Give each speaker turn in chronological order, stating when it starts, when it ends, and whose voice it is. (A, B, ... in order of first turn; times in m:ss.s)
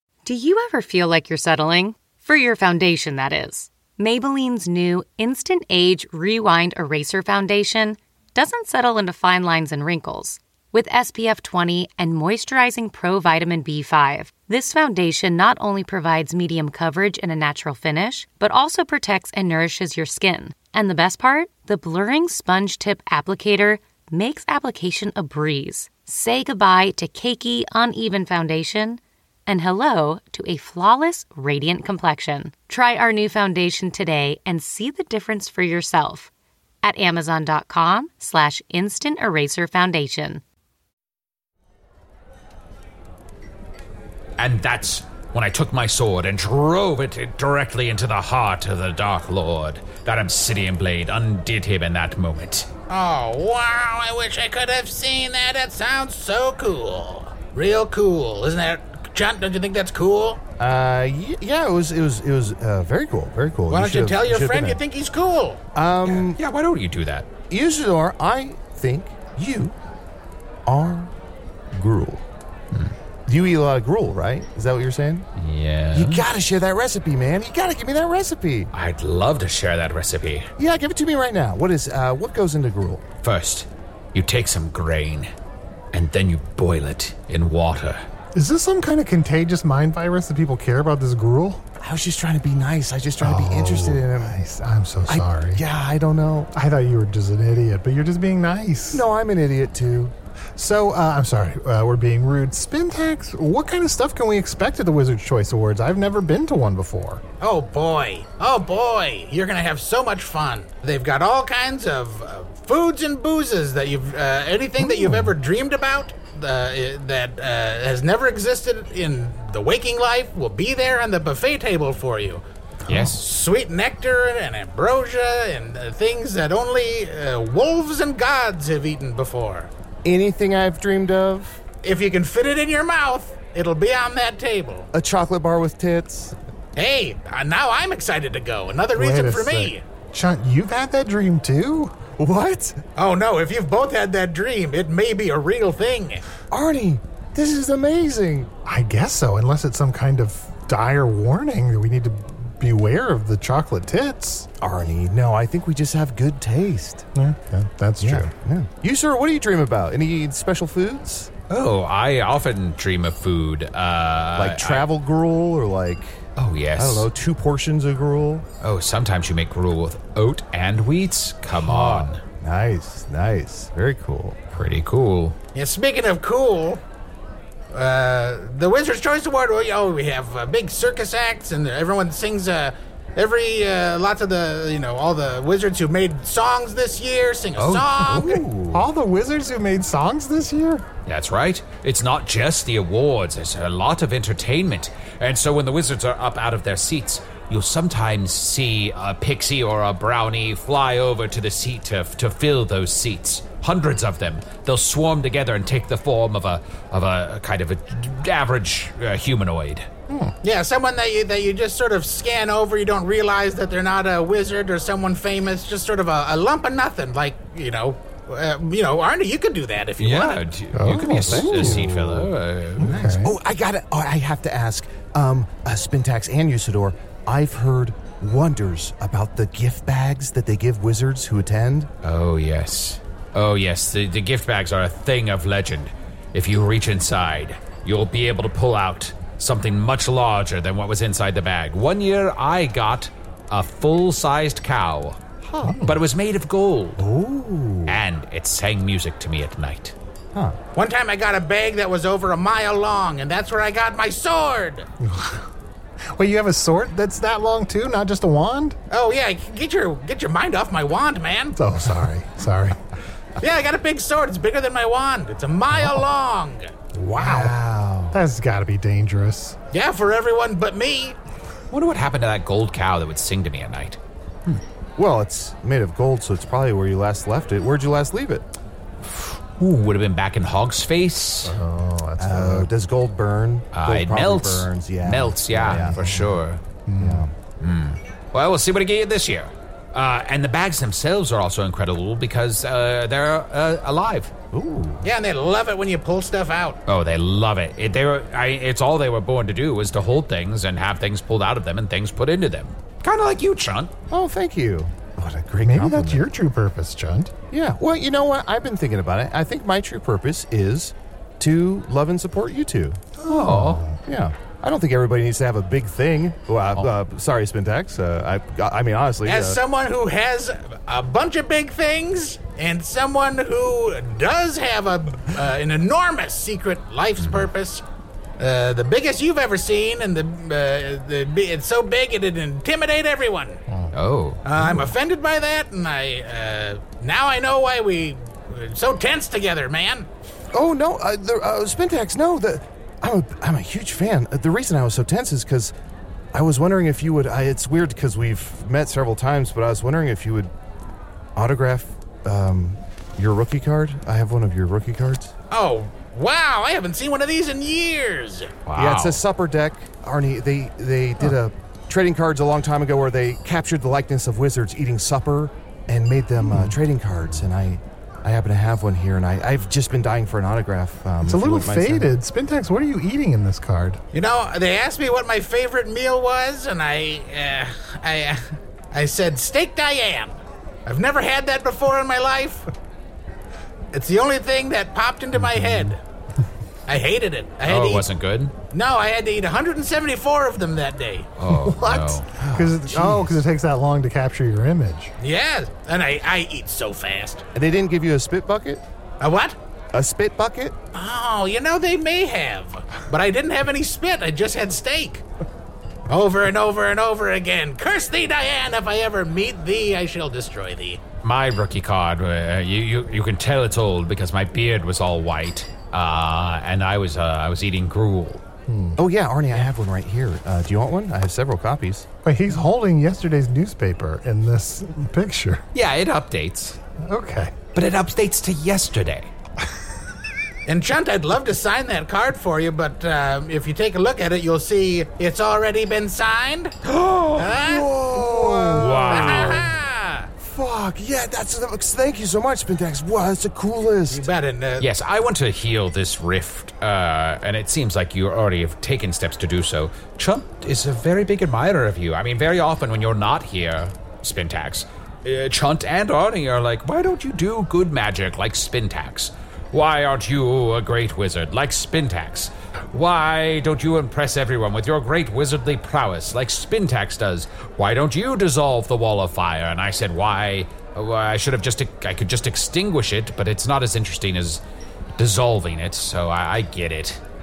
0:00.2-0:36.3 A
0:36.8-0:40.4 A
0:44.4-0:52.7 B
0:52.9-1:00.4 C
1:00.6-1:04.8 D
1:03.7-1:05.6 C
1:05.7-1:06.4 D
1:06.1-1:07.3 B
1:07.5-1:09.8 D
1:10.6-1:11.1 D
1:11.7-1:12.2 D
1:13.3-1:15.3 D
1:15.4-1:16.2 B
1:15.9-1:18.7 D
1:18.7-1:20.5 B
1:20.6-1:23.0 D
1:23.2-1:25.3 B
1:25.9-1:28.0 B
1:28.3-1:31.6 E
1:31.8-1:34.4 D
1:33.2-1:35.6 E
1:35.1-1:36.5 D
1:36.5-1:39.0 E
1:38.9-1:40.1 D
1:40.6-1:47.2 E
1:47.4-2:02.4 C
1:54.8-1:55.3 E
2:02.9-2:03.1 E
2:02.9-2:03.2 B
2:03.1-2:09.7 C
2:10.0-2:11.6 D
2:11.8-2:14.9 C
2:14.9-2:16.3 D
2:16.8-2:19.8 C
2:18.9-2:22.0 E
2:22.2-2:22.8 D
2:23.0-2:26.2 C
2:26.5-2:28.5 D
2:28.6-2:34.5 E
2:34.6-2:37.1 D
2:37.1-2:38.3 E
2:38.0-2:41.3 D
2:41.5-2:44.9 B
2:44.4-2:46.2 D
2:46.4-2:47.1 B
2:46.8-2:48.4 D
2:48.6-2:52.2 B
2:51.6-2:54.4 D
2:54.5-2:55.4 B
2:55.5-2:56.8 C
2:57.7-3:08.4 C
3:07.6-3:08.8 B
3:08.7-3:10.8 E
3:11.0-3:29.9 B
3:30.1-3:30.3 E
3:30.4-3:40.4 C
3:40.0-3:42.9 B
3:40.7-3:43.4 E
3:41.3-3:42.0 D
3:42.8-3:51.9 D
3:52.0-4:05.2 B
4:05.5-4:05.8 D
4:05.6-4:06.0 E
4:05.8-4:07.0 B
4:07.0-4:08.0 D
4:07.9-4:09.9 B
4:10.7-4:14.9 C
4:15.0-4:15.5 E
4:16.1-4:18.8 E
4:18.9-4:21.6 C
4:21.6-4:22.8 E
4:23.4-4:26.7 C
4:25.7-4:26.0 E
4:26.9-4:27.6 E
4:27.2-4:28.2 D
4:28.1-4:29.6 E
4:29.7-4:31.2 C
4:31.7-4:34.6 B
4:35.0-4:38.4 D
4:39.0-4:41.6 B
4:41.4-4:42.7 E
4:42.2-4:46.3 D
4:43.7-4:46.6 B
4:45.7-4:46.3 E
4:46.9-4:47.3 E
4:47.0-4:47.3 D
4:47.6-4:54.3 B
4:54.5-4:55.0 D
4:55.0-4:56.8 C
4:56.9-5:03.9 B
5:04.1-5:06.2 D
5:05.6-5:07.3 E
5:07.5-5:13.0 D
5:13.2-5:14.0 E
5:13.3-5:13.8 B
5:14.0-5:19.6 D
5:19.2-5:27.8 C
5:27.2-5:27.5 B
5:28.4-5:33.6 C
5:33.9-5:34.4 B
5:34.4-5:40.1 C
5:40.5-5:45.7 D
5:46.3-5:50.5 D
5:51.4-5:55.3 D
5:55.5-5:58.6 C
5:58.6-5:59.2 B
5:58.7-6:12.1 D
6:06.4-6:06.8 E
6:11.2-6:14.0 E
6:14.1-6:20.4 C
6:20.9-6:22.7 C
6:23.9-6:26.0 C
6:25.3-6:25.9 E
6:26.9-6:28.0 C
6:27.6-6:28.5 B
6:28.7-6:31.3 C
6:31.4-6:32.3 B
6:31.5-6:35.1 E
6:32.4-6:33.4 D
6:35.2-6:37.4 C
6:37.5-6:38.8 D
6:39.2-6:39.6 C
6:39.9-6:40.8 D
6:40.9-6:45.2 C
6:46.1-6:51.0 C
6:51.2-6:58.4 B
6:58.7-6:59.0 E
6:59.0-7:02.1 D
7:02.2-7:05.6 E
7:05.7-7:06.8 B
7:07.0-7:07.5 E
7:07.7-7:09.3 B
7:10.7-7:16.8 C
7:17.2-7:19.6 D
7:17.3-7:17.9 C
7:18.1-7:19.6 E
7:18.8-7:19.6 B
7:19.1-7:20.3 C
7:20.4-7:24.3 D
7:24.1-7:24.9 C
7:24.8-7:54.6 B
7:55.2-7:57.2 B